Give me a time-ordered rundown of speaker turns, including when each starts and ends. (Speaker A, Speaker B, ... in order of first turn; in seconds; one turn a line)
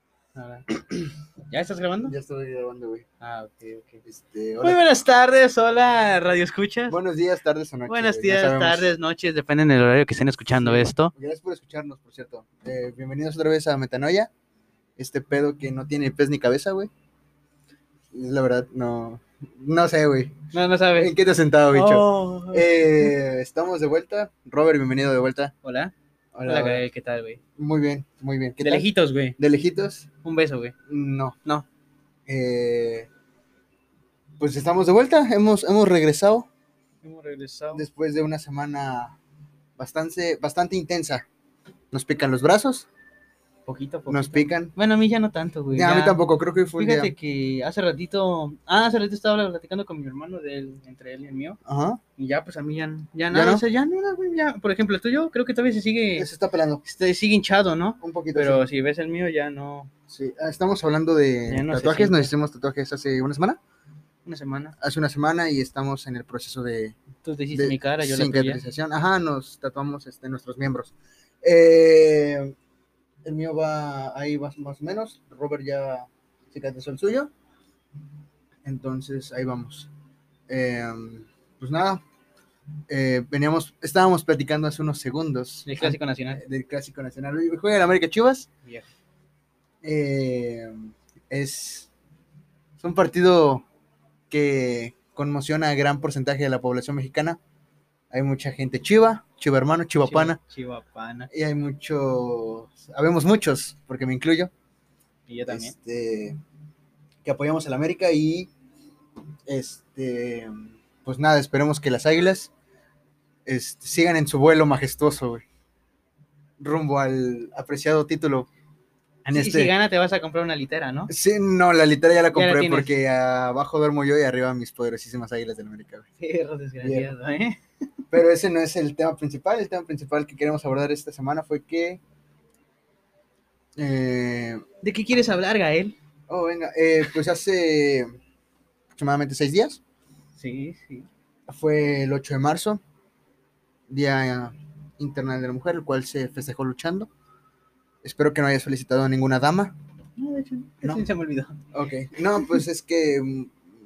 Speaker A: 0.3-0.7
Speaker A: 1.5-2.1
Speaker B: 2.1-3.0
Speaker A: 3.2-4.0
Speaker B: 4.0-4.8
Speaker A: 4.6-7.0
Speaker B: 6.9-8.9
Speaker A: 7.9-11.1
Speaker B: 10.6-14.3
Speaker B: 15.0-16.9
Speaker B: 18.1-25.5
Speaker A: 20.5-21.1
Speaker A: 21.7-23.1
Speaker A: 25.6-25.9
Speaker B: 26.4-26.9
Speaker A: 26.5-27.4
Speaker B: 27.6-30.1
Speaker A: 28.6-29.4
Speaker A: 30.2-30.7
Speaker B: 30.9-31.4
Speaker B: 32.3-33.1
Speaker B: 34.4-36.5
Speaker A: 37.0-37.9
Speaker B: 37.7-39.2
Speaker B: 39.8-41.3
Speaker B: 41.9-42.9
Speaker A: 43.7-46.2
Speaker B: 44.1-44.7
Speaker B: 45.7-47.1
Speaker A: 46.8-51.6
Speaker B: 51.6-52.0
Speaker A: 52.2-56.3
Speaker B: 53.3-53.6
Speaker B: 56.2-56.8
Speaker A: 56.8-59.9
Speaker B: 58.0-58.6
Speaker B: 60.1-63.6
Speaker A: 61.5-62.3
Speaker A: 64.2-64.8
Speaker B: 64.8-67.0
Speaker A: 67.2-68.6
Speaker B: 67.5-72.5
Speaker B: 73.2-77.3
Speaker B: 78.7-79.9
Speaker B: 80.5-82.0
Speaker B: 82.9-88.5
Speaker A: 85.7-86.4
Speaker B: 89.8-91.9
Speaker B: 92.8-93.7
Speaker B: 94.3-97.4
Speaker B: 98.1-100.4
Speaker A: 100.0-101.3
Speaker B: 101.3-104.5
Speaker A: 105.3-105.8
Speaker B: 105.5-106.4
Speaker B: 107.2-108.5
Speaker B: 109.5-112.5
Speaker B: 113.5-115.4
Speaker B: 116.6-118.5
Speaker B: 119.3-119.7
Speaker A: 119.3-121.1
Speaker B: 121.1-126.1
Speaker A: 122.3-122.9
Speaker A: 126.2-127.6
Speaker B: 126.8-127.1
Speaker B: 128.1-132.0
Speaker B: 133.8-134.6
Speaker A: 134.8-136.0
Speaker B: 136.3-138.1
Speaker B: 139.0-139.8
Speaker A: 140.4-141.1
Speaker B: 141.5-142.8
Speaker B: 143.9-147.1
Speaker B: 148.0-149.7
Speaker A: 150.2-151.7
Speaker B: 151.7-153.6